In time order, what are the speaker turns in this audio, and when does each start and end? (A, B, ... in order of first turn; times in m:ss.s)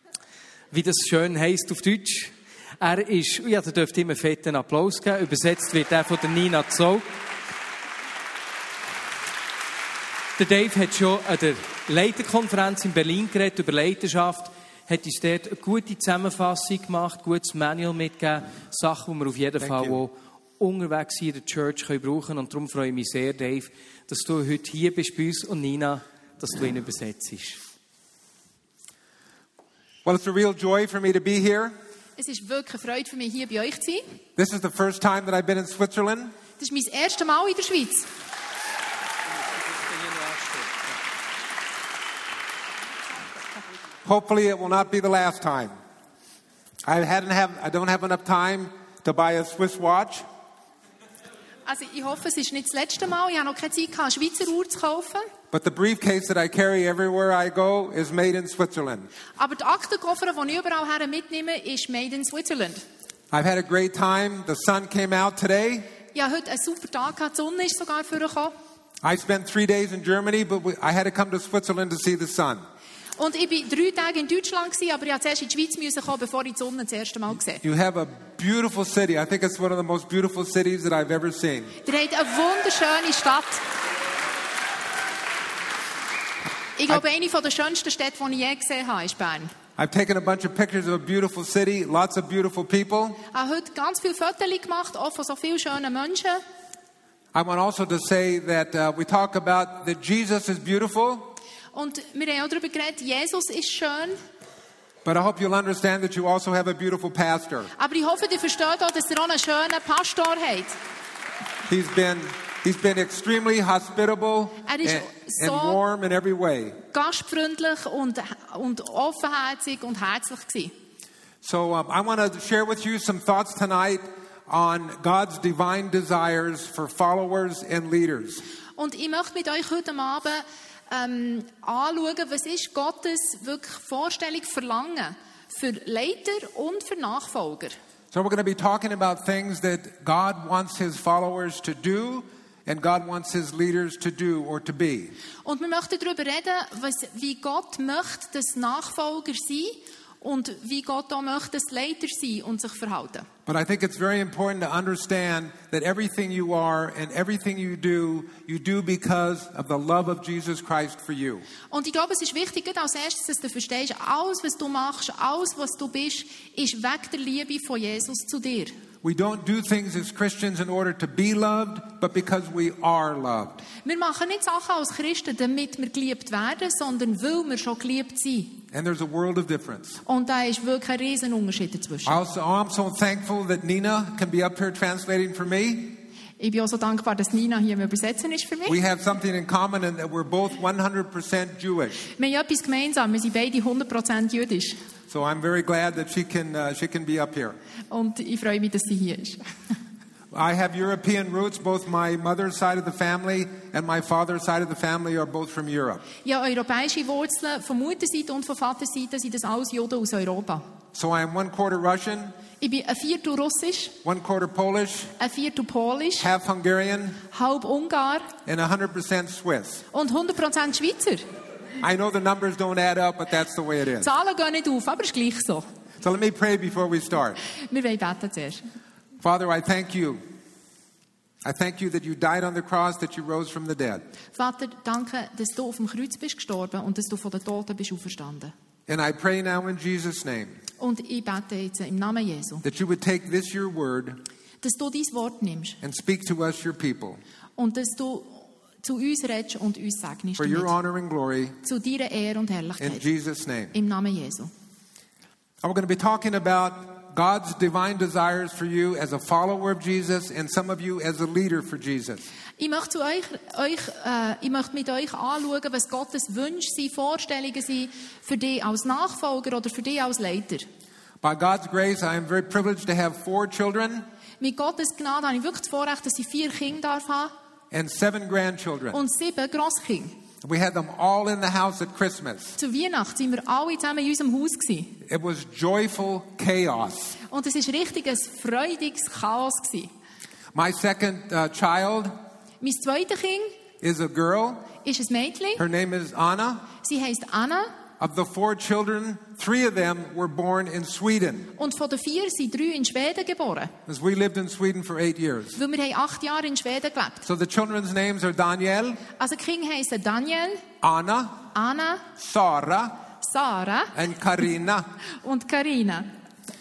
0:00.7-0:07.1 A
0:10.4-0:27.6 A
0:19.6-0:20.0 B
0:30.0-0:31.7 B
0:32.2-0:34.0 C
0:34.4-0:36.3 B
0:36.6-0:38.1 C
0:39.8-0:40.7 A
0:44.0-0:45.7 B
0:46.8-0:50.2 B
0:51.7-0:55.3 C
0:55.5-0:59.1 B
0:59.4-1:02.8 C
1:03.3-1:05.9 B
1:06.1-1:08.5 C
1:09.0-1:12.6 B
1:13.2-1:17.6 C
1:17.6-1:21.8 B
1:21.8-1:23.6 C
1:26.8-1:29.5 C
1:29.8-1:33.2 B
1:33.3-1:36.4 C
1:37.3-1:41.4 B
1:41.7-1:44.2 C
1:45.0-1:47.7 B
1:47.8-1:50.8 C
1:51.7-1:56.8 B
1:54.7-1:55.8 C
1:56.9-2:00.7 C
2:01.4-2:08.4 B
2:08.8-2:17.8 C
2:18.1-2:25.1 B
2:25.4-2:33.3 C
2:33.5-2:41.4 B
2:41.7-2:48.7 C
2:49.0-2:53.6 B
2:53.8-2:58.6 C
2:58.7-3:00.0 B
3:00.1-3:02.2 C
3:02.1-3:06.0 B
3:06.4-3:08.8 C
3:08.7-3:12.1 B
3:12.2-3:14.8 C
3:15.1-3:17.6 B
3:17.9-3:19.4 C
3:20.3-3:26.0 B
3:26.2-3:30.6 C
3:30.9-3:32.4 B
3:32.6-3:34.0 C
3:34.0-3:35.2 B
3:35.2-3:36.3 C
3:36.2-3:37.2 B
3:37.3-3:38.3 C
3:38.4-3:39.8 B
3:39.9-3:41.3 C
3:41.8-3:44.1 B
3:44.0-3:45.7 C
3:46.0-3:47.4 B
3:47.6-3:48.6 C
3:49.2-3:50.2 B
3:51.4-3:54.0 B
3:54.4-3:58.5 C
3:58.9-4:00.6 B
4:00.8-4:02.6 C
4:02.6-4:04.2 B
4:04.6-4:05.8 C
4:05.8-4:07.2 B
4:07.6-4:10.7 C
4:10.4-4:11.6 B
4:11.6-4:13.0 C
4:12.8-4:13.7 B
4:13.7-4:14.5 C
4:15.6-4:22.2 B
4:22.6-4:30.7 C
4:31.2-4:34.1 B
4:34.4-4:37.3 C
4:37.7-4:39.0 B
4:38.9-4:40.2 C
4:40.4-4:42.6 B
4:42.6-4:45.0 C
4:45.0-4:47.2 B
4:47.3-4:49.9 C
4:50.5-4:52.1 B
4:52.6-4:53.6 C
4:53.8-4:54.7 B
4:54.8-4:55.6 C
4:55.6-4:56.7 B
4:56.8-4:57.8 C
4:58.0-5:01.5 B
5:01.6-5:03.7 C
5:03.9-5:05.6 B
5:05.6-5:07.2 C
5:07.2-5:09.0 B
5:09.2-5:10.6 C
5:10.8-5:11.4 B
5:11.5-5:12.1 C
5:12.2-5:13.0 B
5:13.2-5:14.0 C
5:13.9-5:15.0 B
5:15.1-5:16.1 C